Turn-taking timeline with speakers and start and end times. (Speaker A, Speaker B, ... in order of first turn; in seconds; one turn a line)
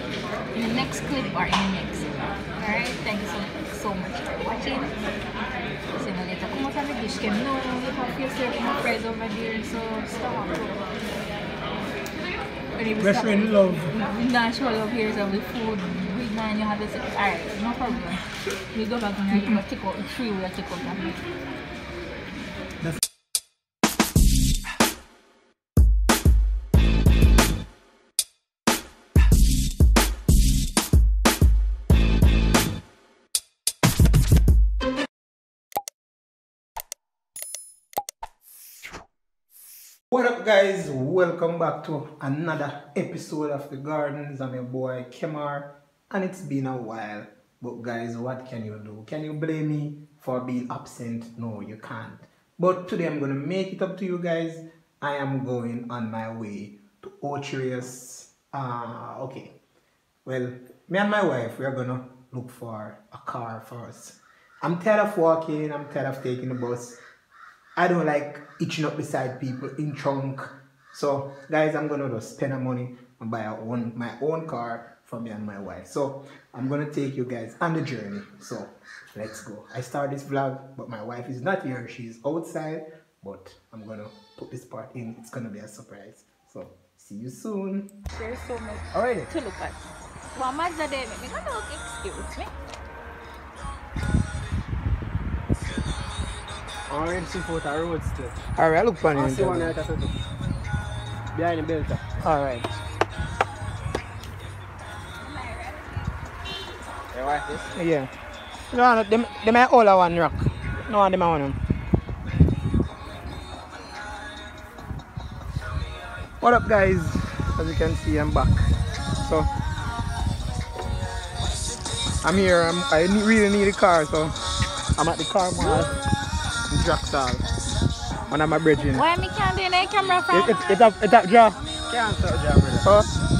Speaker A: 0.5-5.0
Speaker A: 6.0-10.8
Speaker A: 12.8-18.2
Speaker B: 13.0-13.9
Speaker A: 18.7-21.2
Speaker B: 19.3-19.6
Speaker B: 40.1-59.5
Speaker B: 60.2-67.0
Speaker B: 67.8-87.9
Speaker A: 88.1-89.8
Speaker B: 89.0-89.3
Speaker A: 90.3-92.5
Speaker C: 96.9-98.4
Speaker B: 98.6-99.8
Speaker C: 99.1-100.2
Speaker C: 101.3-102.0
Speaker B: 102.2-102.8
Speaker A: 105.2-106.1
Speaker C: 107.1-107.7
Speaker B: 107.7-108.1
Speaker B: 108.7-111.6
Speaker B: 116.4-119.5
Speaker B: 122.2-124.3
Speaker B: 125.0-126.0
Speaker B: 126.7-127.5
Speaker B: 128.3-129.1
Speaker A: 128.8-130.7
Speaker B: 130.3-131.6
Speaker C: 131.9-132.9
Speaker B: 132.8-133.1